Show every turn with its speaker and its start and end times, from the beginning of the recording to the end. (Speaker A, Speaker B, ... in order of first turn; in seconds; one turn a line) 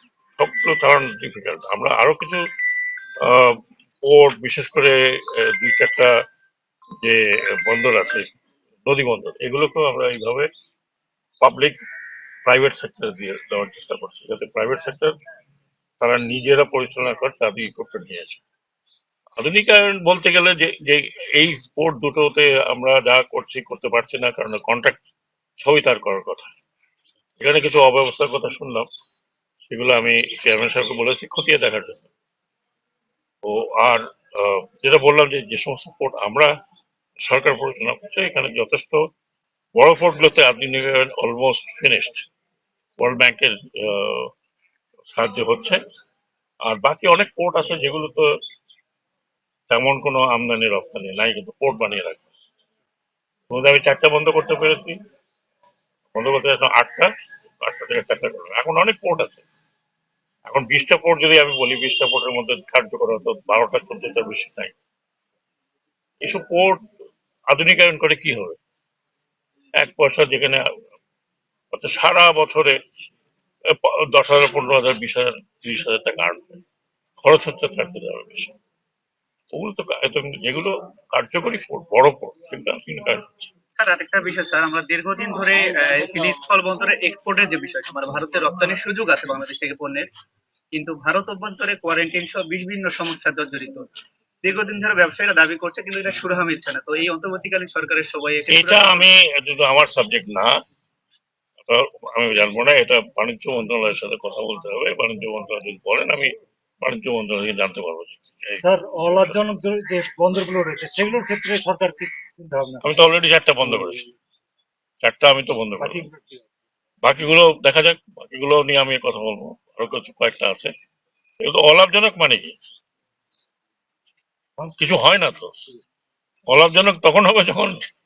Speaker A: 0.4-2.4
Speaker A: 3.2-6.1
Speaker A: 7.0-8.2
Speaker A: 8.8-10.5
Speaker A: 11.4-11.8
Speaker A: 12.4-15.1
Speaker A: 16.0-18.4
Speaker A: 19.4-25.0
Speaker A: 25.6-26.5
Speaker A: 27.4-28.9
Speaker A: 29.7-32.1
Speaker A: 33.4-36.5
Speaker A: 37.2-39.0
Speaker A: 39.7-42.2
Speaker A: 43.0-44.3
Speaker A: 45.1-45.8
Speaker A: 46.6-48.2
Speaker A: 49.7-52.3
Speaker A: 53.5-55.0
Speaker A: 56.1-59.4
Speaker A: 60.5-64.8
Speaker A: 66.2-66.8
Speaker A: 67.5-68.6
Speaker A: 69.8-70.6
Speaker A: 71.7-72.8
Speaker A: 73.7-76.6
Speaker A: 77.2-78.5
Speaker A: 79.5-83.5
Speaker B: 83.8-90.1
Speaker B: 90.7-93.8
Speaker B: 94.4-99.1
Speaker A: 98.5-100.5
Speaker A: 101.6-109.4
Speaker C: 108.6-112.8
Speaker A: 112.8-114.0
Speaker A: 115.0-116.0
Speaker C: 115.8-116.4
Speaker A: 117.0-120.7
Speaker A: 121.4-122.5
Speaker A: 124.7-125.5
Speaker A: 126.5-127.8